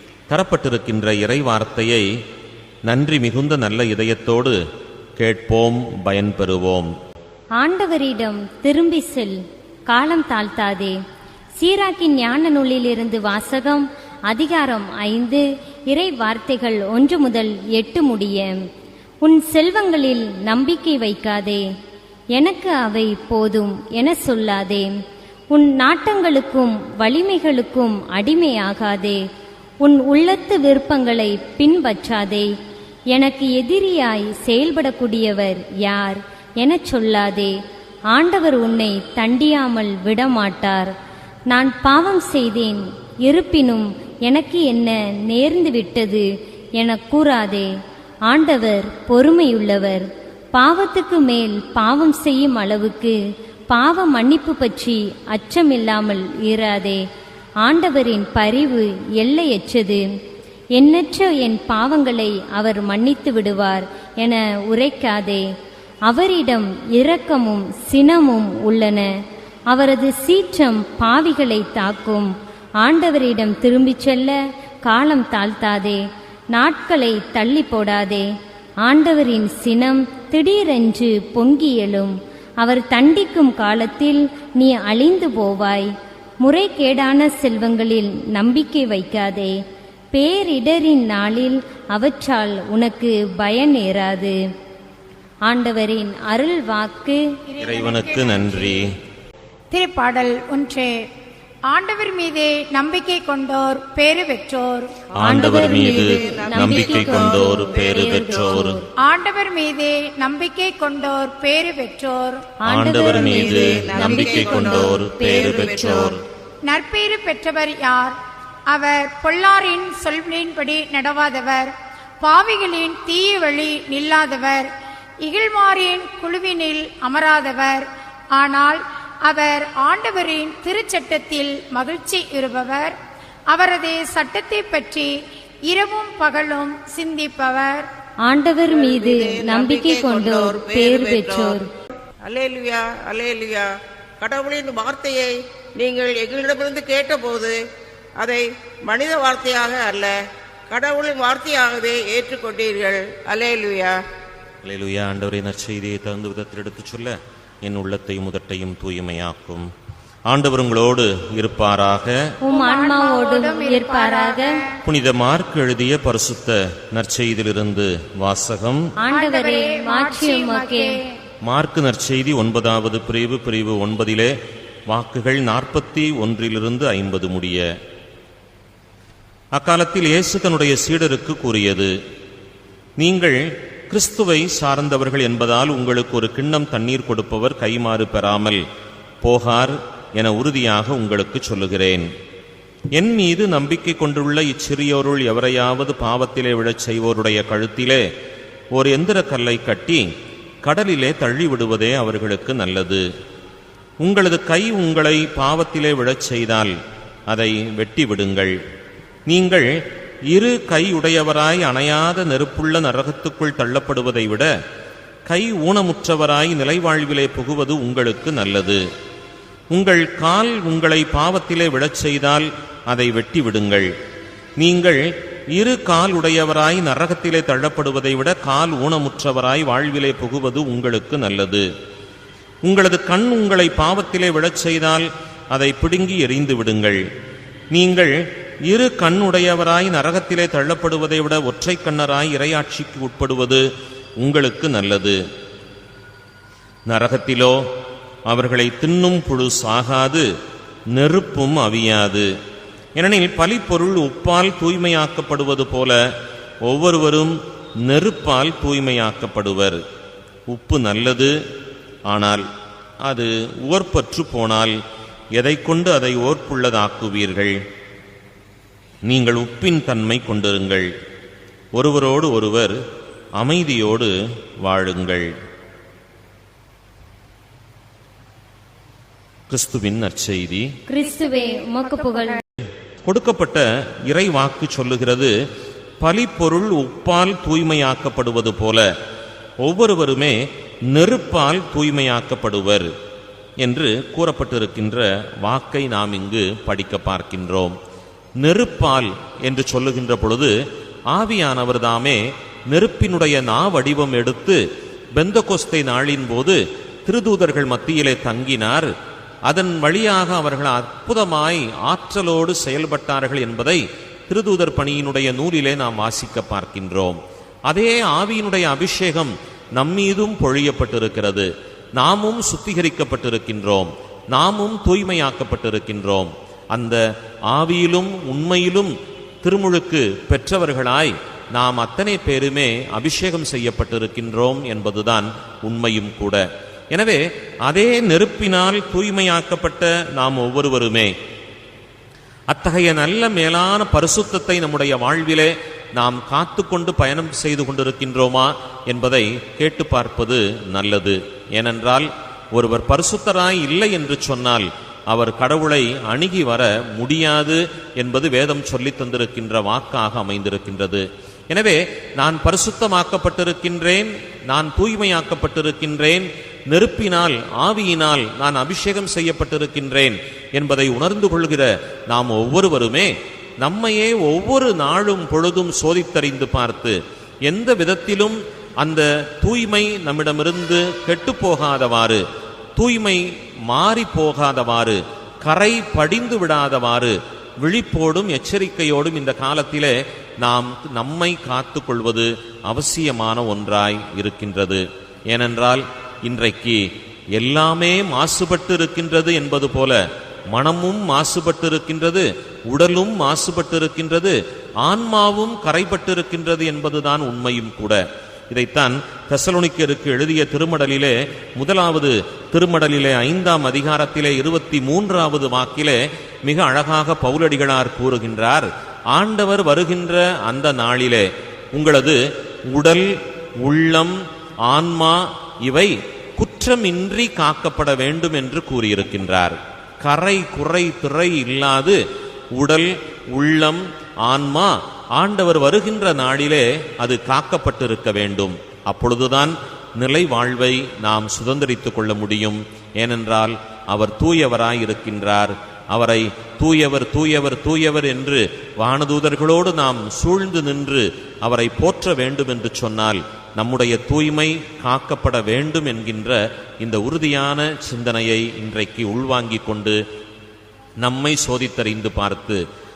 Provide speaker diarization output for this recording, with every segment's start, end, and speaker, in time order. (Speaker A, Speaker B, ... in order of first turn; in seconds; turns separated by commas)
Speaker A: 0.3-2.1, Speaker A: 2.9-4.6, Speaker A: 5.2-6.9, Speaker B: 7.6-9.4, Speaker B: 9.9-10.9, Speaker B: 11.6-18.6, Speaker B: 19.2-21.6, Speaker B: 22.4-24.9, Speaker B: 25.5-29.2, Speaker B: 29.8-32.5, Speaker B: 33.1-37.5, Speaker B: 38.1-40.9, Speaker B: 41.5-46.3, Speaker B: 46.8-47.7, Speaker B: 48.3-53.2, Speaker B: 53.7-57.0, Speaker B: 57.6-60.0, Speaker B: 60.8-65.4, Speaker B: 66.1-69.0, Speaker B: 69.7-72.3, Speaker B: 72.8-74.3, Speaker B: 74.9-76.0, Speaker B: 76.5-78.3, Speaker B: 78.8-85.9, Speaker B: 86.4-89.5, Speaker B: 90.1-94.4, Speaker B: 95.5-97.2, Speaker C: 97.5-98.8, Speaker A: 97.6-98.9, Speaker C: 99.7-101.1, Speaker C: 101.7-105.0, Speaker A: 105.2-108.8, Speaker D: 105.2-108.6, Speaker B: 105.2-108.9, Speaker C: 109.0-112.5, Speaker B: 112.6-116.1, Speaker A: 112.7-116.2, Speaker D: 113.1-116.2, Speaker C: 116.7-118.2, Speaker C: 118.7-124.7, Speaker C: 125.2-133.0, Speaker C: 133.5-137.9, Speaker B: 138.3-141.7, Speaker D: 138.7-141.6, Speaker D: 142.2-147.6, Speaker D: 148.2-150.1, Speaker D: 150.7-154.0, Speaker A: 154.6-159.7, Speaker A: 160.3-162.3, Speaker B: 162.4-164.6, Speaker C: 162.5-164.8, Speaker A: 164.8-168.9, Speaker B: 169.0-171.0, Speaker C: 169.1-171.2, Speaker A: 171.5-174.3, Speaker A: 174.9-177.7, Speaker A: 179.6-181.9, Speaker A: 183.0-188.6, Speaker A: 189.2-192.1, Speaker A: 192.9-198.1, Speaker A: 198.7-200.1, Speaker A: 200.6-203.1, Speaker A: 204.0-206.8, Speaker A: 207.3-208.6, Speaker A: 209.3-214.5, Speaker A: 215.3-218.8, Speaker A: 219.7-223.9, Speaker A: 224.6-225.0, Speaker A: 225.6-231.7, Speaker A: 232.7-237.0, Speaker A: 237.7-238.2, Speaker A: 238.7-243.6, Speaker A: 244.2-245.2, Speaker A: 246.9-247.6, Speaker A: 248.3-250.3, Speaker A: 250.9-252.3, Speaker A: 253.0-256.0, Speaker A: 256.7-259.8, Speaker A: 260.5-261.4, Speaker A: 262.1-262.4, Speaker A: 263.1-264.8, Speaker A: 265.4-267.6, Speaker A: 269.1-270.9, Speaker A: 271.8-272.8, Speaker A: 273.4-275.3, Speaker A: 279.5-280.7, Speaker B: 280.9-282.4, Speaker C: 281.0-282.4, Speaker A: 283.0-285.3, Speaker A: 286.0-288.9, Speaker A: 289.6-292.9, Speaker A: 293.6-297.8, Speaker A: 298.4-300.5, Speaker A: 301.1-304.6, Speaker A: 305.2-308.9, Speaker A: 309.5-341.1, Speaker A: 342.5-382.2, Speaker A: 382.8-396.8, Speaker A: 397.4-432.0, Speaker A: 432.5-460.0, Speaker A: 461.0-462.6